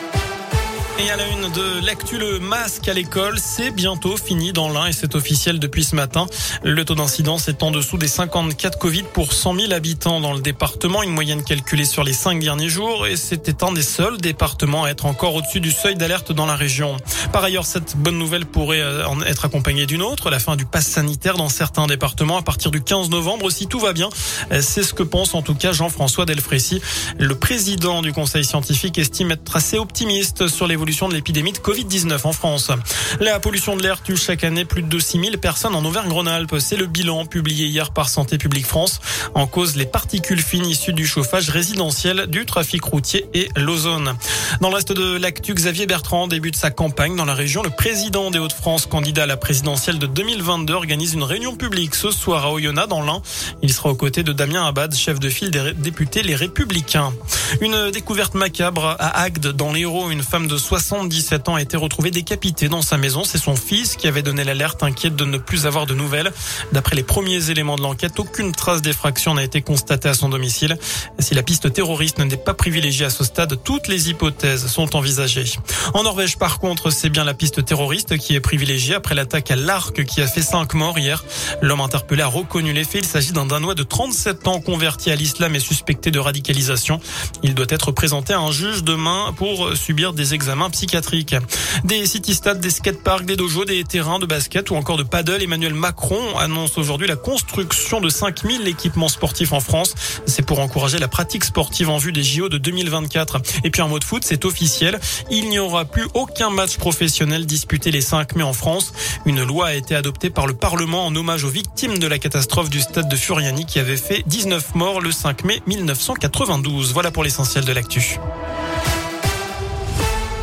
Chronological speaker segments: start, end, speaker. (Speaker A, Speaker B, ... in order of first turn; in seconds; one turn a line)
Speaker A: 1.0-118.2